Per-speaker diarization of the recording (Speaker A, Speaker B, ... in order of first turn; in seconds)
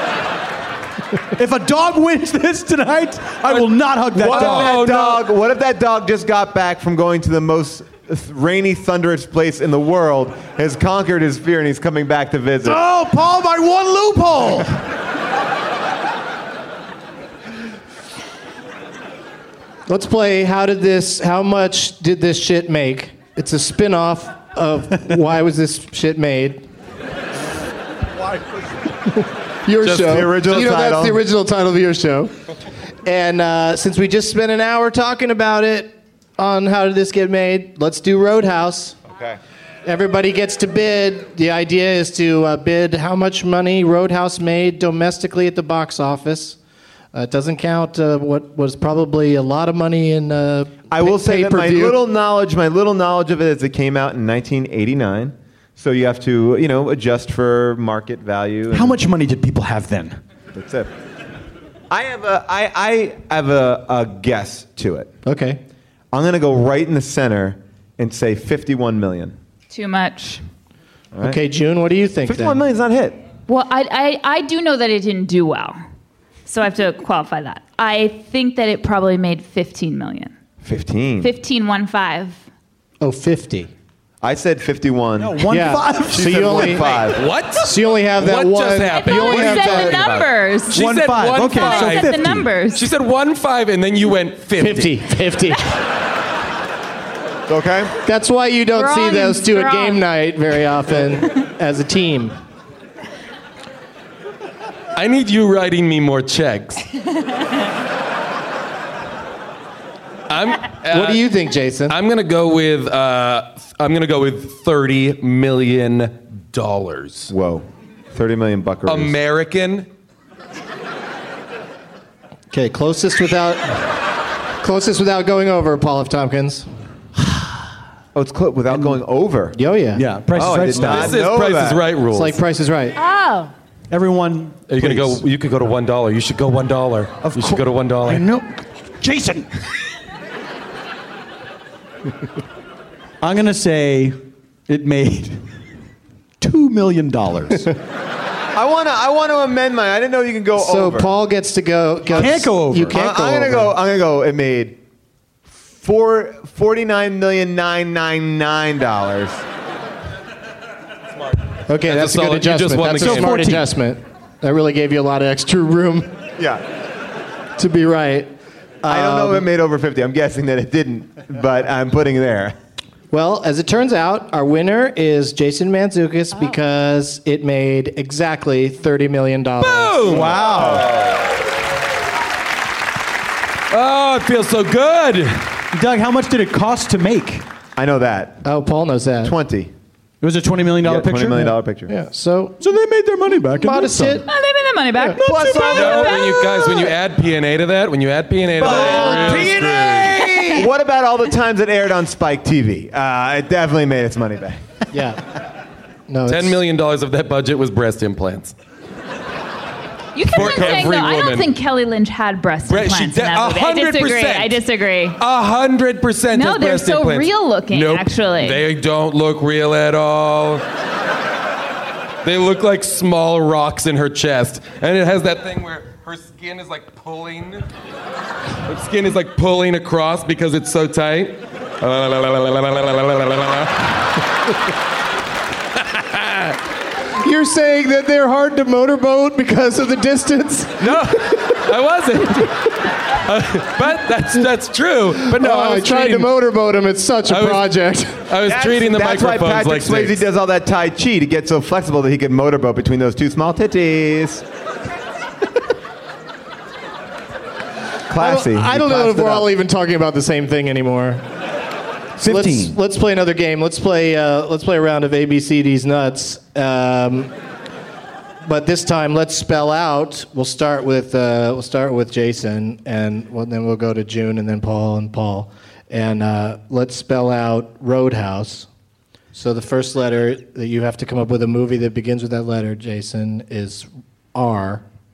Speaker A: 1.4-4.8, 12.6-14.8, 58.7-60.2, 85.2-86.6, 90.7-92.5, 128.7-129.0, 129.9-131.3, 133.9-135.2, 137.2-139.5, 143.2-144.2, 144.7-145.4, 146.4-147.7, 152.2-153.0, 163.0-163.7, 180.1-181.0, 185.7-187.4, 190.2-191.5, 192.6-194.2, 198.6-200.7, 262.2-262.8
Speaker B: 3.5-5.2, 29.8-30.3, 86.8-95.0, 105.0-106.9, 110.3-111.3, 111.9-117.3, 118.9-119.9, 130.7-132.4, 134.7-138.3, 161.8-163.4, 179.6-180.3, 183.7-185.5, 195.7-200.5, 206.3-208.5, 210.3-211.5, 212.7-214.6, 215.2-220.6, 222.2-227.7, 228.7-233.9, 235.8-236.6, 240.8-246.3, 247.3-247.7, 248.3-250.3
Speaker C: 4.2-12.8, 30.0-31.2, 50.9-59.0, 60.5-60.9, 61.9-65.1, 66.1-69.3, 71.1-71.4, 72.3-73.2, 80.6-81.3, 84.2-85.6, 86.1-87.2, 97.5-97.9, 117.3-119.2, 128.2-129.6, 130.3-131.9, 148.6-151.1, 152.9-154.8, 155.8-159.4, 168.9-172.6, 180.1-181.3, 187.8-188.4, 189.2-189.7, 190.8-191.9, 195.2-196.6, 198.6-199.7, 200.4-204.6, 248.5-254.4, 258.1-259.5
Speaker D: 19.9-26.6, 29.6-32.3, 33.0-39.0, 39.9-46.6, 47.1-52.0, 65.2-65.6, 71.2-72.6, 83.0-83.7, 85.5-86.9, 87.6-90.0, 94.6-95.7, 98.0-102.3, 110.9-112.0, 122.5-123.9, 124.6-126.7, 129.6-130.1, 132.1-133.0, 150.6-153.8, 161.7-166.1, 167.6-169.5, 173.1-180.2, 188.4-189.3, 191.9-192.6, 193.6-194.2, 204.9-205.2, 206.1-206.6, 237.2-241.6, 245.2-248.2, 258.2-261.2, 262.2-267.3, 268.4-278.7, 279.3-284.8
Speaker E: 69.7-70.4, 73.5-75.8, 76.5-80.3, 81.2-82.4, 88.9-90.8, 91.4-92.9, 98.7-100.0, 133.0-133.5, 194.2-196.9, 210.2-215.2, 216.3-218.6